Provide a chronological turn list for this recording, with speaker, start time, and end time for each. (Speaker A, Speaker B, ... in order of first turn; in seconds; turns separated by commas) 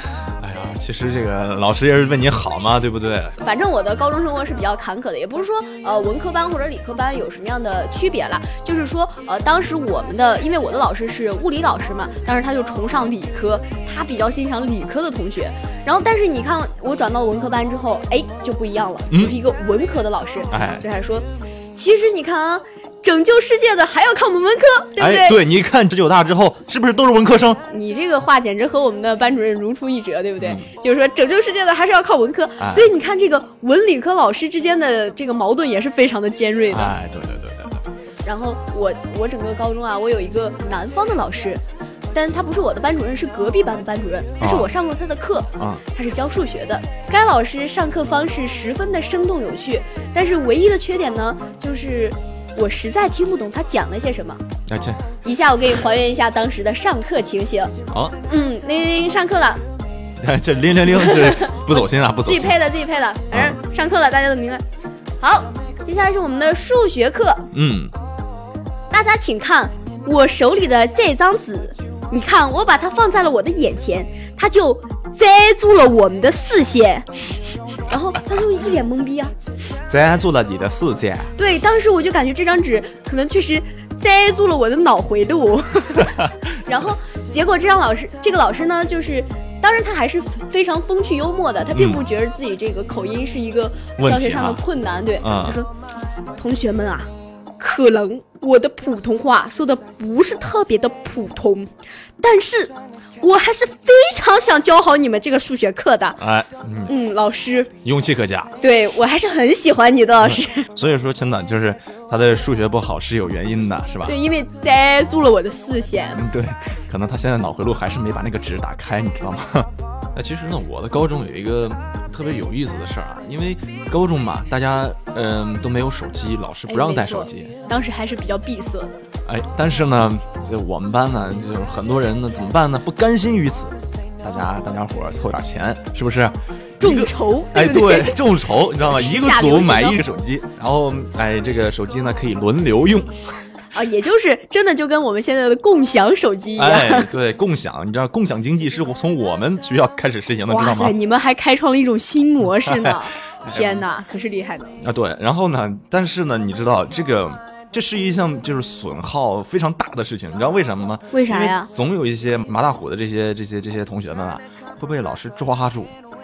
Speaker A: 0.4-3.4, Speaker B: 3.4-25.4, Speaker A: 20.5-20.8, Speaker A: 25.0-27.6, Speaker B: 27.7-36.9, Speaker A: 30.4-30.7, Speaker A: 32.6-32.9, Speaker A: 36.7-37.9, Speaker B: 38.2-54.4, Speaker A: 44.4-44.7, Speaker A: 54.7-55.0, Speaker B: 55.2-57.7, Speaker A: 57.9-58.2, Speaker B: 58.3-59.6, Speaker A: 60.2-62.6, Speaker B: 61.0-64.6, Speaker A: 63.3-63.6, Speaker B: 65.2-67.5, Speaker A: 67.5-67.9, Speaker B: 68.9-77.1, Speaker B: 77.9-79.4, Speaker A: 79.9-81.3, Speaker B: 81.4-95.7, Speaker A: 91.7-92.0, Speaker A: 94.0-94.6, Speaker A: 95.2-95.6, Speaker B: 96.4-106.2, Speaker A: 106.2-106.9, Speaker B: 106.9-107.7, Speaker A: 107.8-108.6, Speaker B: 108.6-110.7, Speaker A: 110.2-114.2, Speaker B: 114.1-116.2, Speaker A: 116.1-127.5, Speaker B: 126.7-129.0, Speaker A: 129.3-143.1, Speaker B: 136.8-138.2, Speaker B: 138.8-140.0, Speaker B: 143.7-147.1, Speaker A: 146.6-151.0, Speaker B: 150.5-154.8, Speaker A: 152.6-153.8, Speaker A: 154.8-165.9, Speaker B: 161.1-161.7